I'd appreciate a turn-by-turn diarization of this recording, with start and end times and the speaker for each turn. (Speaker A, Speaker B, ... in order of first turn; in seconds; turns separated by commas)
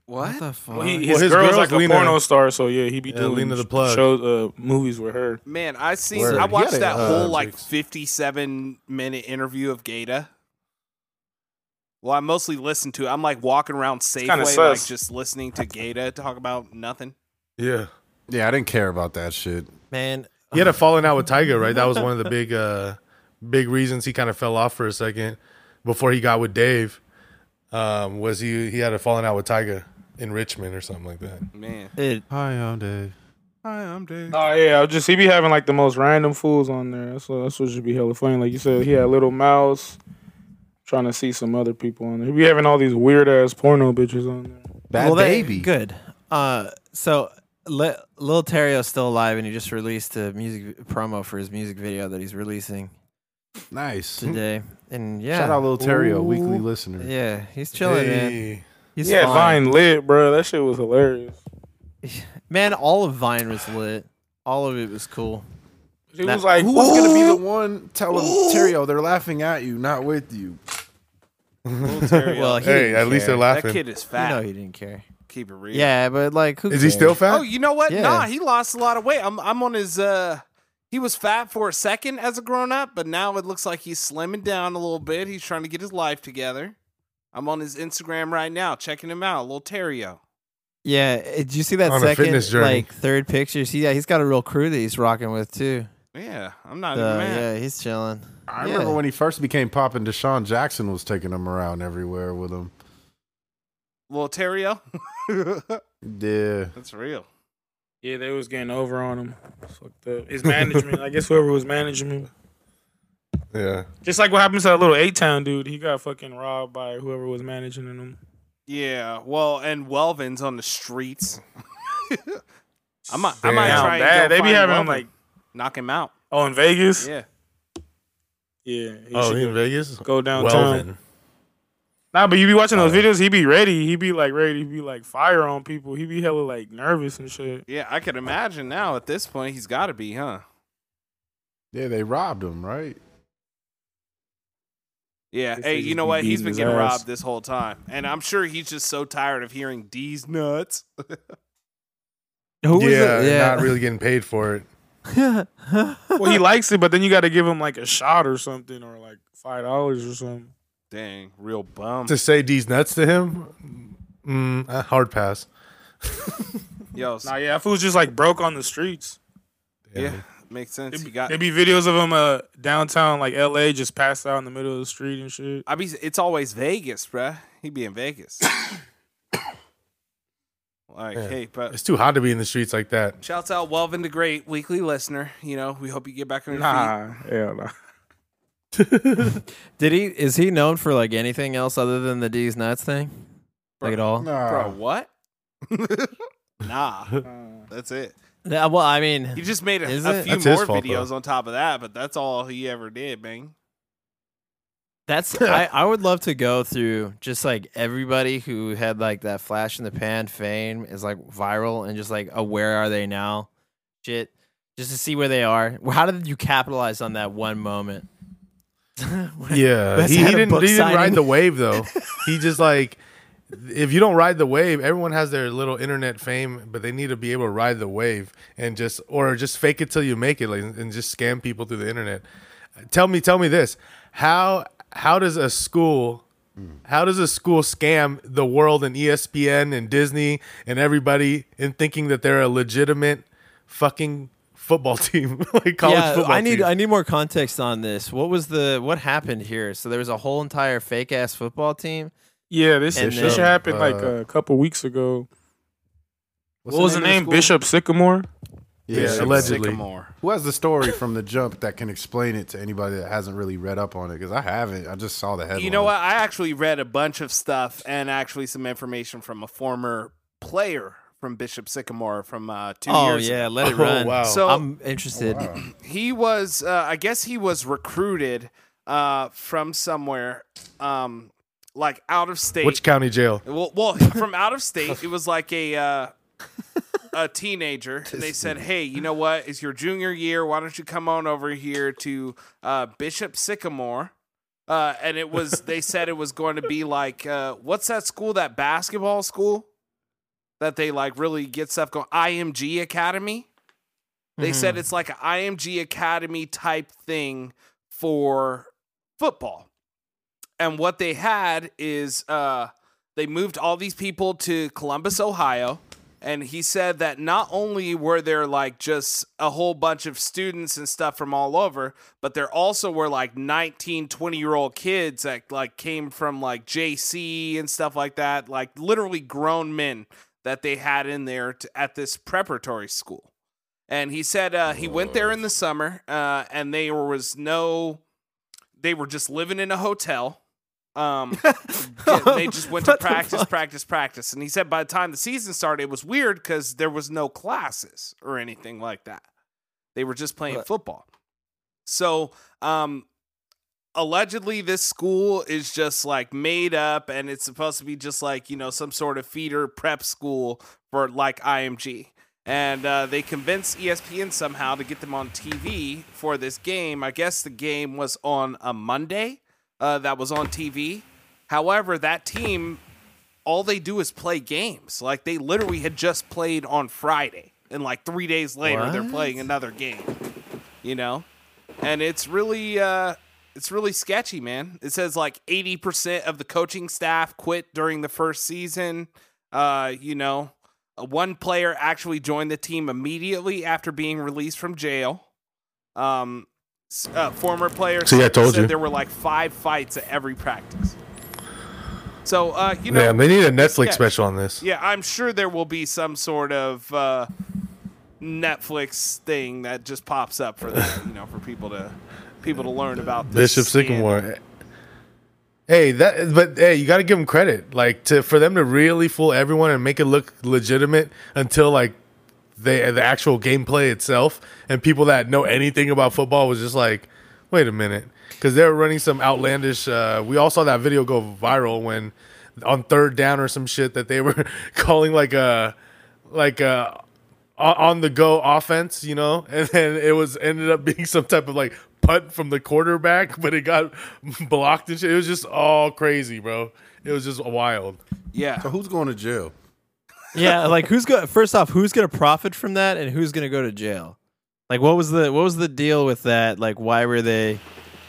Speaker A: 0.1-0.4, Speaker B: 0.2-1.2, Speaker C: 0.7-5.4, Speaker D: 1.1-2.2, Speaker D: 3.1-4.1, Speaker A: 5.5-10.3, Speaker E: 6.1-7.5, Speaker B: 6.2-6.5, Speaker D: 6.9-7.6, Speaker A: 12.0-17.1, Speaker C: 14.2-14.9, Speaker D: 17.6-17.9, Speaker E: 18.3-19.7, Speaker B: 19.9-20.8, Speaker D: 20.5-27.0, Speaker D: 27.7-31.5, Speaker A: 31.5-31.9, Speaker B: 32.0-32.2, Speaker E: 32.3-33.1, Speaker A: 33.6-34.4, Speaker C: 34.3-40.0, Speaker C: 40.9-44.7, Speaker E: 44.9-45.7, Speaker B: 45.0-52.9, Speaker E: 53.7-54.3, Speaker B: 54.2-55.6, Speaker E: 55.3-57.1, Speaker D: 55.8-56.6, Speaker B: 57.0-58.4, Speaker D: 57.8-58.6, Speaker B: 59.0-59.6, Speaker C: 59.0-61.4, Speaker B: 62.0-65.5, Speaker C: 66.1-67.4, Speaker E: 66.5-70.6, Speaker D: 71.7-73.8, Speaker A: 71.8-72.7, Speaker B: 72.3-73.5, Speaker A: 73.5-74.4, Speaker B: 74.1-75.1, Speaker A: 75.3-75.9, Speaker B: 75.7-77.2, Speaker D: 76.7-77.5, Speaker A: 77.3-86.8, Speaker B: 77.9-78.3, Speaker A: 87.3-90.2, Speaker B: 90.8-95.9, Speaker D: 91.9-92.9, Speaker A: 96.1-97.5, Speaker B: 96.9-99.0, Speaker E: 98.5-102.7, Speaker A: 104.1-105.8, Speaker E: 106.0-106.7, Speaker A: 106.8-107.3, Speaker C: 108.0-112.3, Speaker D: 110.5-111.0, Speaker D: 113.5-113.9, Speaker C: 114.0-118.2, Speaker A: 118.7-121.4, Speaker A: 122.1-122.4, Speaker C: 123.1-125.1, Speaker A: 123.1-126.1, Speaker D: 123.4-124.0, Speaker C: 126.3-127.1, Speaker A: 127.0-127.3, Speaker C: 128.7-130.9, Speaker D: 129.1-131.0, Speaker C: 132.1-137.7, Speaker D: 132.7-133.1, Speaker A: 137.7-140.4, Speaker E: 141.7-143.0, Speaker A: 145.3-151.2, Speaker C: 145.6-147.0, Speaker B: 152.6-153.7, Speaker D: 152.7-154.7, Speaker B: 155.1-156.4, Speaker C: 156.2-160.5, Speaker A: 160.9-162.2, Speaker D: 162.1-165.5, Speaker D: 166.1-166.4, Speaker A: 166.9-167.3, Speaker C: 167.2-169.2, Speaker D: 169.9-170.2, Speaker A: 170.0-171.4, Speaker C: 170.9-175.7, Speaker A: 175.7-178.5, Speaker A: 180.9-181.8, Speaker D: 181.2-183.2, Speaker A: 183.2-186.9, Speaker C: 186.5-187.7, Speaker D: 188.8-189.4, Speaker B: 189.8-193.2, Speaker A: 193.8-195.1, Speaker B: 193.8-194.3, Speaker E: 194.2-194.8, Speaker A: 195.7-198.2, Speaker C: 197.2-197.7, Speaker B: 198.5-200.3, Speaker A: 199.4-203.5, Speaker D: 200.2-201.1, Speaker B: 205.1-213.5, Speaker B: 214.0-218.1, Speaker B: 219.0-221.2, Speaker D: 219.5-223.0, Speaker B: 221.8-222.2, Speaker D: 223.5-232.3, Speaker D: 232.9-236.2, Speaker D: 236.9-246.7, Speaker B: 245.8-252.1, Speaker C: 252.5-255.3, Speaker B: 252.9-253.5, Speaker D: 253.2-253.6, Speaker E: 253.6-254.2, Speaker E: 256.6-257.5, Speaker C: 256.7-258.3, Speaker E: 258.9-259.6, Speaker D: 258.9-259.8, Speaker A: 258.9-260.1, Speaker E: 260.2-265.9, Speaker A: 265.6-273.5, Speaker B: 272.9-275.5, Speaker D: 273.6-274.4, Speaker A: 274.2-274.6, Speaker E: 275.1-275.6, Speaker A: 275.7-282.8, Speaker D: 282.6-283.4, Speaker A: 283.4-286.1, Speaker A: 287.1-294.1, Speaker E: 288.1-288.6, Speaker A: 294.7-299.7, Speaker A: 300.6-303.5, Speaker B: 304.4-304.8, Speaker A: 304.4-309.7, Speaker A: 310.6-333.3, Speaker A: 333.9-338.0, Speaker A: 338.8-340.4, Speaker A: 340.9-349.3, Speaker B: 341.4-343.5, Speaker A: 349.9-351.1, Speaker A: 351.9-353.1, Speaker A: 354.0-372.8, Speaker A: 373.4-380.1, Speaker B: 378.6-379.5, Speaker A: 380.8-381.3, Speaker A: 381.8-395.2, Speaker A: 396.0-401.0, Speaker D: 398.0-398.7, Speaker A: 402.2-407.3, Speaker D: 402.9-404.6, Speaker A: 408.2-414.2, Speaker D: 413.3-414.4, Speaker D: 415.7-422.0, Speaker D: 422.6-435.8, Speaker D: 436.3-437.0, Speaker D: 437.6-448.0, Speaker A: 448.3-448.7, Speaker E: 448.6-449.5, Speaker B: 450.3-454.2, Speaker B: 454.7-457.6